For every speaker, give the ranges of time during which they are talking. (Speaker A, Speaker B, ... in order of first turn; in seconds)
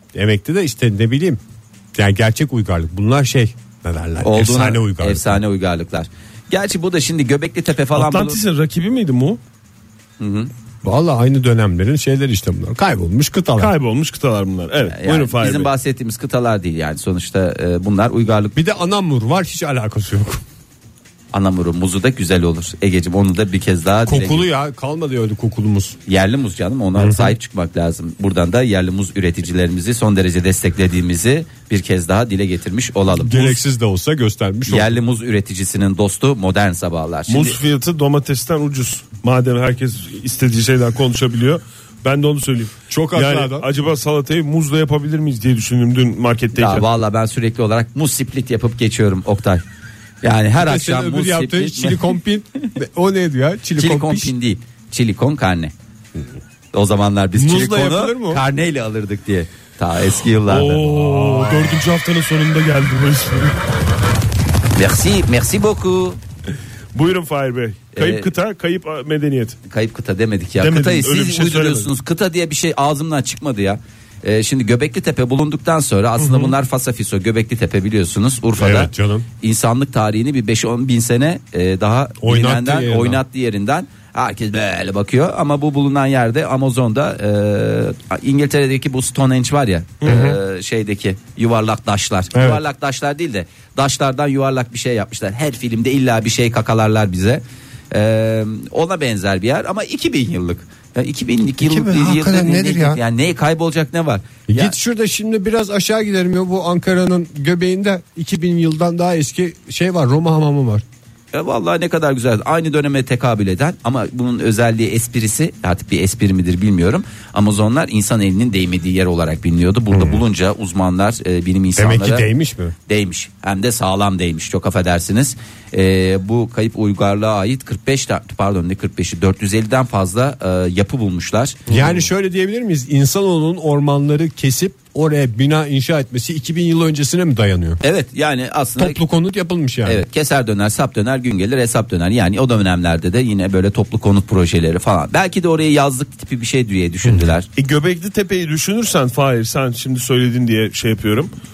Speaker A: 0.1-1.4, 1.9-5.4, 10.8-13.7, 18.6-20.4, 24.1-26.0, 27.0-27.4, 33.1-35.0, 42.9-43.7, 50.6-54.3, 57.4-58.4, 60.9-61.8, 78.6-79.3, 82.2-83.2, 90.0-90.4, 92.3-92.6, 101.6-103.0, 104.5-110.8, 119.9-120.2, 121.8-122.7, 131.7-137.8, 138.8-140.0, 147.0-147.3
Speaker B: 4.2-8.4, 10.2-10.5, 14.9-18.6, 21.3-24.5, 26.1-33.6, 34.7-37.6, 46.6-49.6, 50.2-52.1, 53.8-55.7, 56.7-60.9, 64.8-66.2, 68.0-68.3, 69.7-104.8, 111.3-122.3, 122.9-131.7, 137.8-139.0, 139.9-147.5
Speaker C: 8.0-9.4, 13.6-15.7, 37.3-46.9, 60.5-63.6, 66.9-69.6, 70.6-71.9, 76.2-76.5, 147.6-151.3